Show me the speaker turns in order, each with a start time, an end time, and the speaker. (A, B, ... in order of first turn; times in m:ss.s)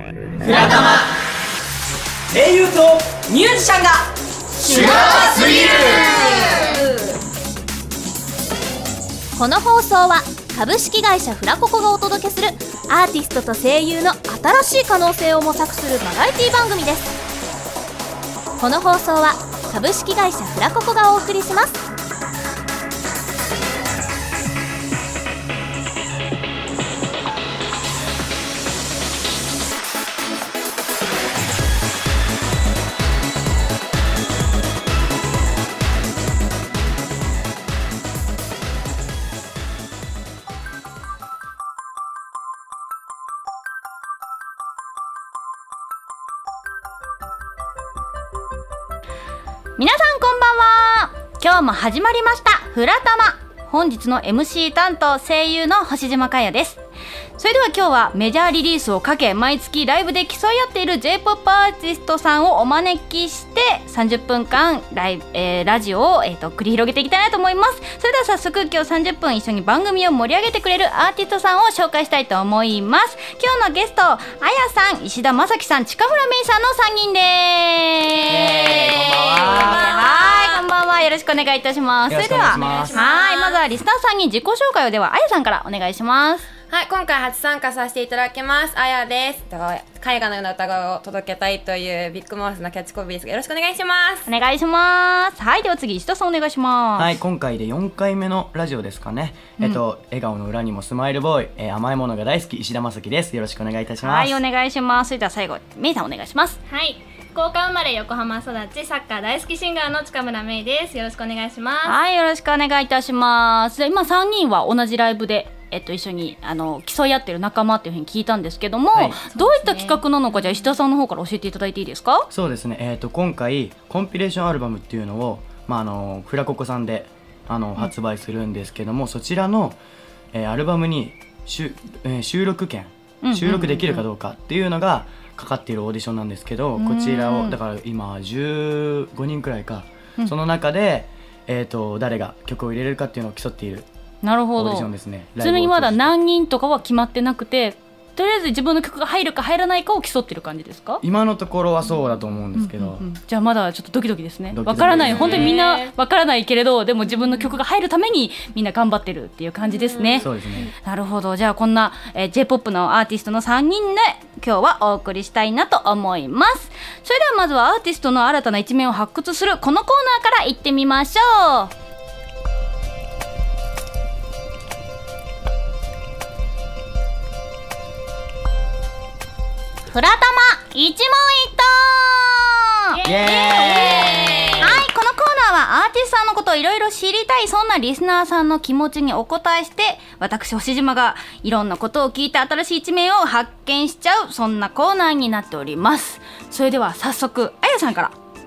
0:00.4-0:01.2 A
0:02.3-0:06.7 A
0:04.9-0:07.1 B
0:09.4-0:17.2 B
0:18.6-0:21.8 B
0:49.8-0:56.8 C
0:57.4-1:26.5 C
1:18.3-1:20.3 D
1:22.1-1:23.0 D
1:22.2-1:23.6 E
1:26.7-1:34.3 E
1:34.3-1:37.2 C
1:37.0-1:44.4 D
1:44.0-1:46.6 C
1:46.7-1:52.0 F
1:51.8-2:02.3 C
1:58.9-1:59.2 D
1:59.4-2:00.0 F
2:02.3-2:09.8 D
2:10.3-2:23.9 D
2:13.2-2:14.0 C
2:16.8-2:17.6 C
2:24.2-2:31.0 C
2:24.6-2:26.2 D
2:31.0-2:33.1 D
2:32.6-2:40.3 C
2:34.5-2:35.6 D
2:34.9-2:36.0 F
2:39.7-2:40.7 E
2:40.2-2:40.7 D
2:40.8-2:51.7 C
2:59.9-3:18.2 C
3:03.0-3:03.9 F
3:03.0-3:04.8 D
3:03.6-3:04.8 E